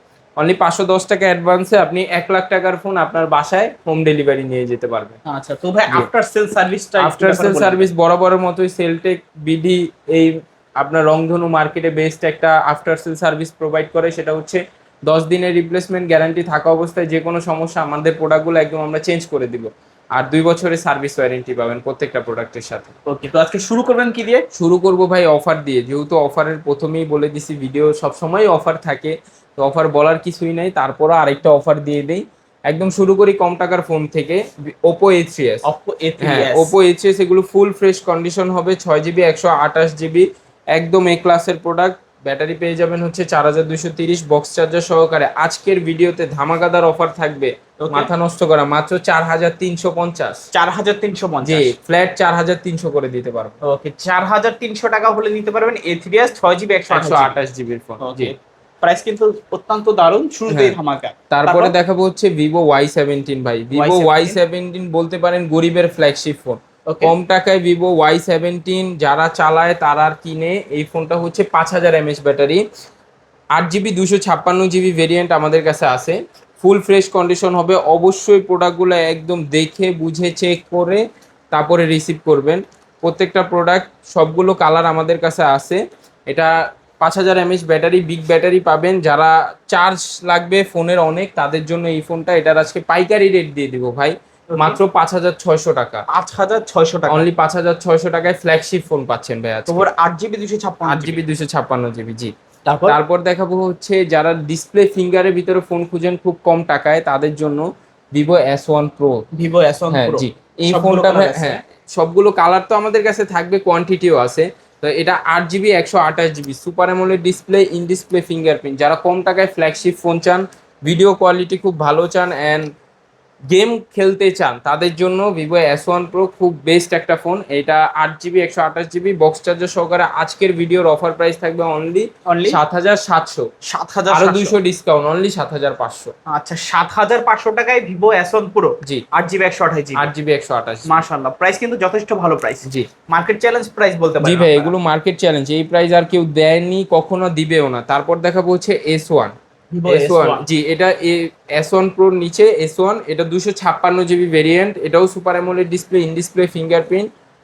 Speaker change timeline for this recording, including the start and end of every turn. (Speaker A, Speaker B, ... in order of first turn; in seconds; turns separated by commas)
Speaker A: 0.4-5.2, Speaker B: 5.2-7.9, Speaker A: 7.0-22.9, Speaker B: 23.1-24.4, Speaker A: 24.6-35.6, Speaker B: 35.6-36.7, Speaker A: 36.2-50.5, Speaker B: 47.8-48.1, Speaker B: 50.5-51.7, Speaker A: 51.4-53.5, Speaker B: 53.6-57.4, Speaker A: 56.9-58.3, Speaker B: 58.0-61.7, Speaker A: 60.5-60.8, Speaker A: 61.3-72.6, Speaker B: 63.7-64.4, Speaker B: 66.8-67.1, Speaker A: 73.5-96.0, Speaker B: 94.5-94.8, Speaker B: 96.1-97.2, Speaker A: 97.1-99.9, Speaker B: 99.7-101.2, Speaker A: 100.8-102.3, Speaker B: 102.7-103.0, Speaker A: 102.9-109.2, Speaker B: 109.3-111.6, Speaker A: 109.9-122.7, Speaker A: 123.5-133.5, Speaker B: 132.3-132.6, Speaker B: 133.7-134.6, Speaker A: 134.1-136.1, Speaker B: 136.3-140.0, Speaker A: 139.9-141.0, Speaker B: 140.8-144.7, Speaker A: 144.2-149.3, Speaker B: 149.7-150.4, Speaker A: 149.9-157.1